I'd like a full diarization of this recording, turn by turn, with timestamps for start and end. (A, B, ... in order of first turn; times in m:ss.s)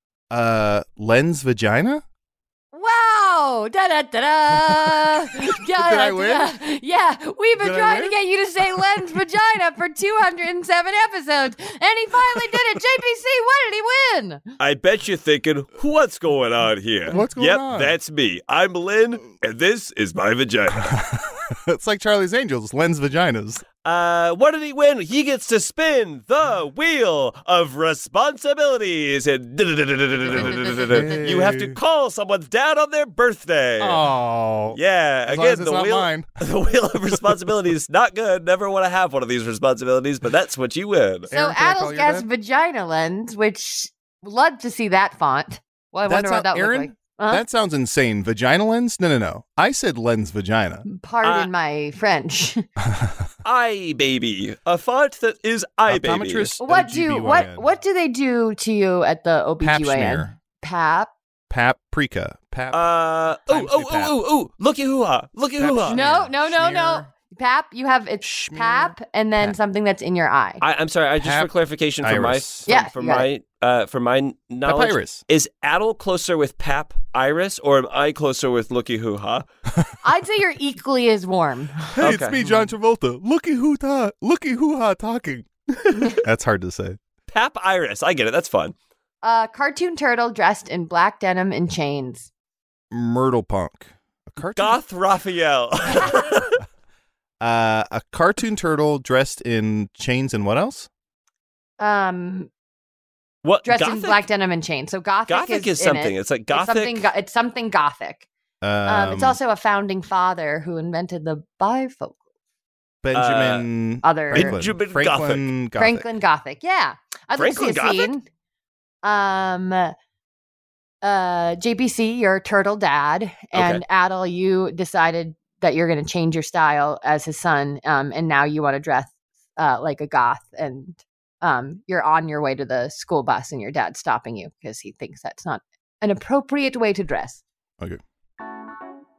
0:00.3-0:02.0 A
0:02.7-0:14.4 B
0:05.1-0:06.5 A
0:07.6-0:08.2 A
0:14.6-0:20.9 C
0:17.1-0:18.0 A
0:20.7-0:23.6 A
0:23.8-0:34.0 C
0:30.2-0:31.3 B
0:30.3-0:31.8 A
0:33.8-0:36.3 A
0:34.7-0:41.3 C
0:41.3-0:42.3 A
0:41.3-0:47.4 B
0:46.1-0:50.8 A
0:50.9-0:52.7 B
0:51.2-0:51.5 C
0:52.8-0:53.3 A
0:53.4-0:56.6 C
0:55.9-0:57.7 A
0:56.6-1:01.1 B
0:59.6-1:00.4 A
1:01.5-1:02.9 A
1:02.7-1:06.0 C
1:03.5-1:04.1 A
1:05.6-1:07.1 A
1:05.9-1:10.6 B
1:08.2-1:09.6 A
1:10.6-1:19.5 C
1:11.2-1:12.7 A
1:12.7-1:13.3 B
1:14.6-1:15.2 A
1:20.0-1:21.9 B
1:22.0-1:25.5 A
1:22.0-1:22.6 C
1:25.8-1:26.2 C
1:26.2-1:27.0 A
1:27.3-1:28.7 C
1:29.2-1:32.3 B
1:32.9-1:34.8 A
1:34.6-1:36.6 C
1:37.4-1:40.9 A
1:41.8-1:42.5 B
1:43.4-1:44.2 C
1:43.6-1:48.3 B
1:45.3-1:47.1 C
1:48.6-1:49.4 A
1:48.8-1:52.2 B
1:53.0-1:56.1 A
1:53.1-1:53.7 C
1:54.0-1:54.6 B
1:54.3-1:55.4 C
1:55.8-1:58.2 B
1:57.4-1:58.1 C
1:59.0-1:59.9 B
2:01.0-2:17.4 B
2:03.5-2:03.8 C